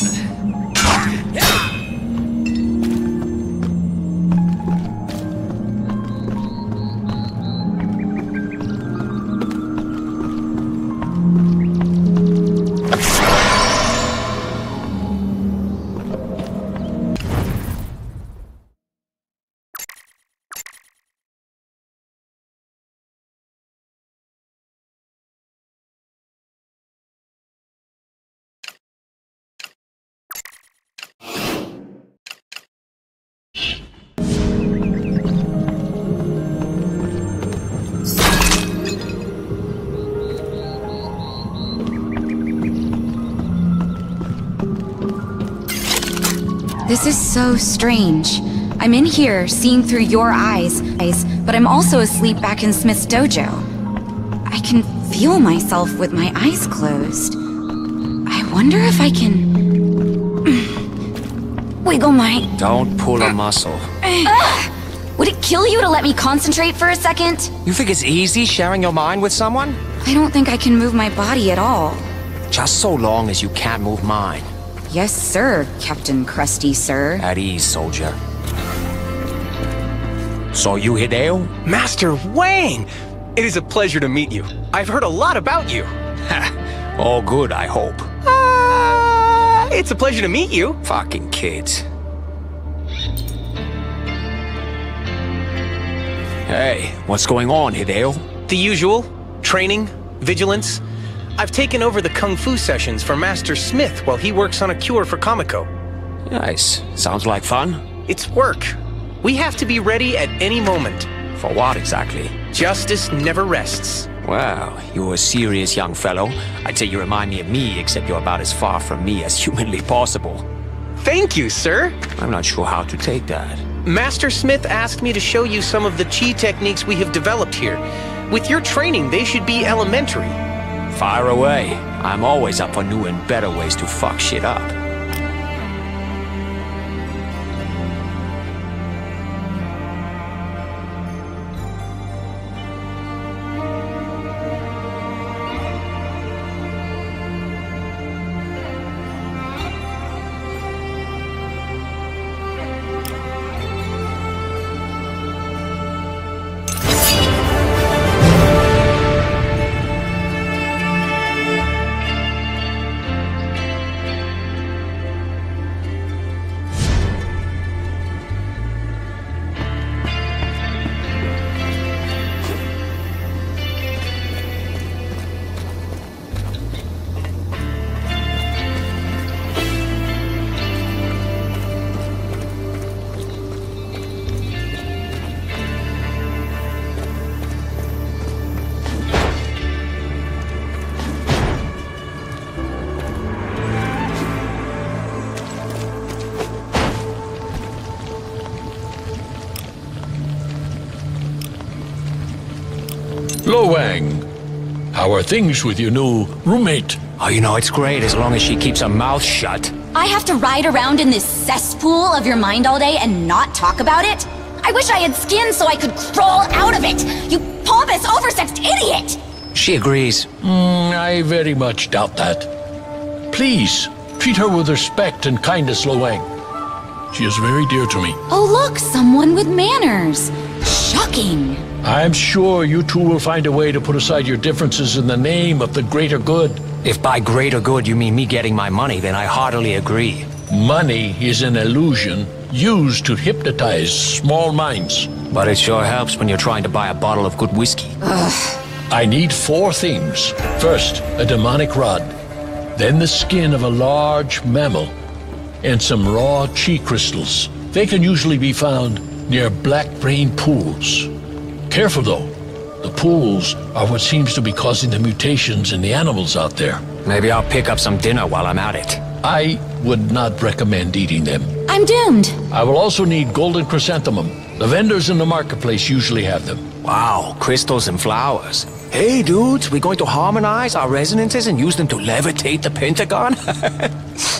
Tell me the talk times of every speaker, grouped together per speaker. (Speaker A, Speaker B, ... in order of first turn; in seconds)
Speaker A: 46.9-53.7, 54.5-57.4, 58.3-59.5, 61.8-62.5, 64.0-67.5, 70.0-72.1, 74.9-77.2, 209.9-219.2, 228.3-231.7, 248.0-248.6, 271.7-272.4
Speaker B: 62.5-63.9, 67.7-69.8, 72.5-74.5, 77.2-78.2, 80.5-81.5, 86.3-88.1, 90.8-91.9, 96.5-98.3, 106.3-107.8, 111.3-112.4, 114.2-120.5, 122.2-123.7, 130.9-134.8, 207.2-209.7, 219.6-220.3, 236.8-240.3, 245.3-248.0, 267.1-269.0, 276.8-283.9
Speaker C: 81.6-85.9, 88.3-90.8, 98.5-100.8, 101.4-105.7, 108.1-111.1, 112.5-114.1, 121.0-122.0, 123.8-130.4
Speaker D: 203.4-204.2, 204.9-207.0, 220.4-222.5, 223.3-226.3, 227.1-228.2, 231.8-236.6, 240.5-245.1, 248.9-252.1, 252.8-254.9, 255.6-261.1, 261.7-266.8, 269.2-271.5, 272.5-276.6